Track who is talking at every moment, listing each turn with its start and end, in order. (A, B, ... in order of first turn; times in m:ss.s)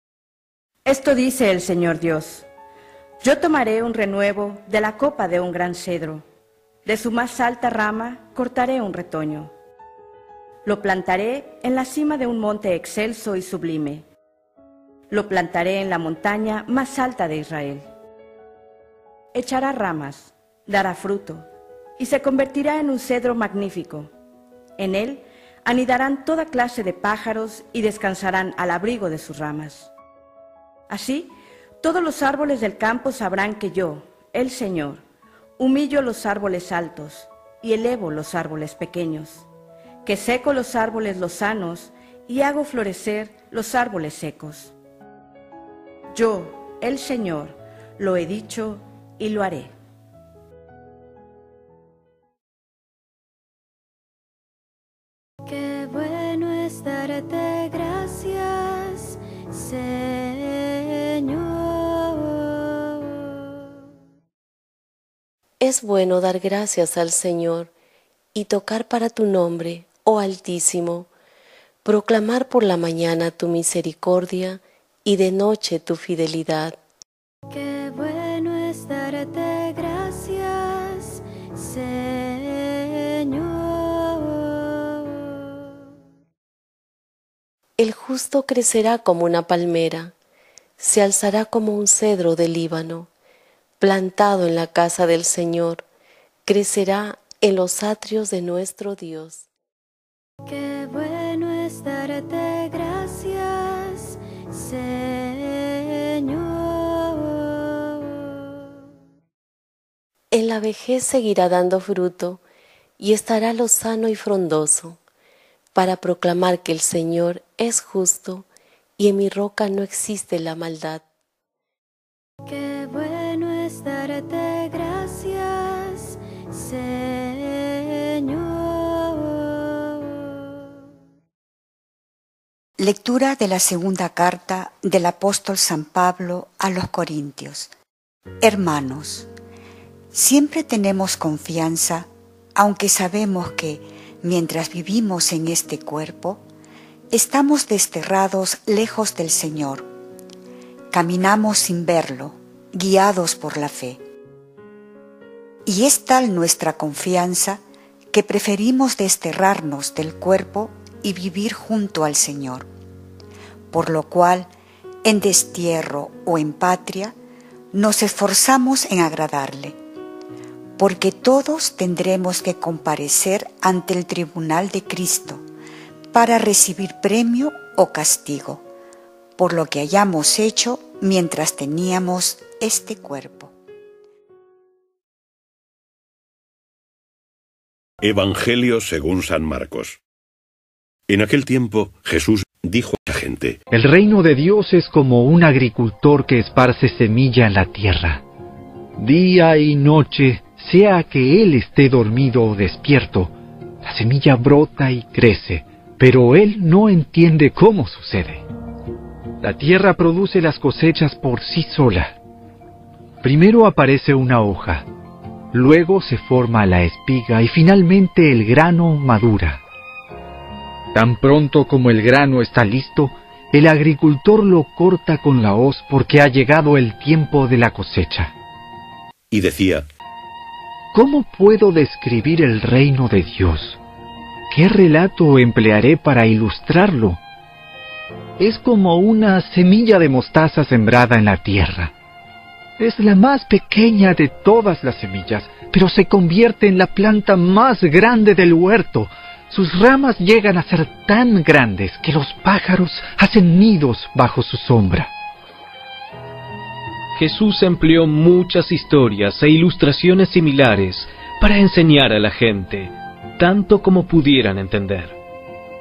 0:00.8-0:02.5 A
0:03.2-0:06.2 A
0:06.8-0:09.5 A
0:10.6-0:14.0 A
0:15.1-0:17.9 A
0:19.3-0:21.5 A
0:22.0-0:24.1 A
0:24.8-0:29.9 A
0:30.9-0:35.0 A
0:35.6-0:39.4 A
0:40.0-0:44.7 A
0:46.1-0:49.7 A
0:55.4-1:03.3 B
1:05.6-1:07.7 C
1:08.3-1:11.1 C
1:11.8-1:16.8 C
1:17.5-1:25.5 B
1:27.8-1:30.1 C
1:30.8-1:33.1 C
1:33.8-1:35.8 C
1:36.4-1:39.4 C
1:40.4-1:48.4 B
1:50.3-1:52.4 C
1:53.0-1:55.0 C
1:55.7-1:58.5 C
1:59.0-2:01.0 C
2:02.4-2:10.3 B
2:12.8-2:17.7 D
2:18.4-2:19.3 D
2:20.1-2:26.4 D
2:27.1-2:29.9 D
2:30.9-2:34.0 D
2:35.6-2:37.6 D
2:38.1-2:42.7 D
2:43.7-2:44.5 D
2:45.0-2:47.1 D
2:47.7-2:49.8 D
2:50.8-2:55.4 D
2:56.1-2:58.6 D
2:59.4-3:03.5 D
3:08.0-3:10.0 E
3:11.1-3:13.6 E
3:13.7-3:18.2 F
3:19.0-3:23.3 F
3:23.8-3:28.4 F
3:29.4-3:32.2 F
3:33.2-3:34.9 F
3:35.5-3:39.6 F
3:40.9-3:48.3 F
3:49.3-3:49.9 E
3:50.9-3:53.8 F
3:54.5-3:57.2 F
3:58.4-4:01.9 F
4:02.8-4:15.1 F
4:17.2-4:25.2 G
4:17.2-4:17.5 E
4:18.2-4:22.8 E
4:23.4-4:24.7 E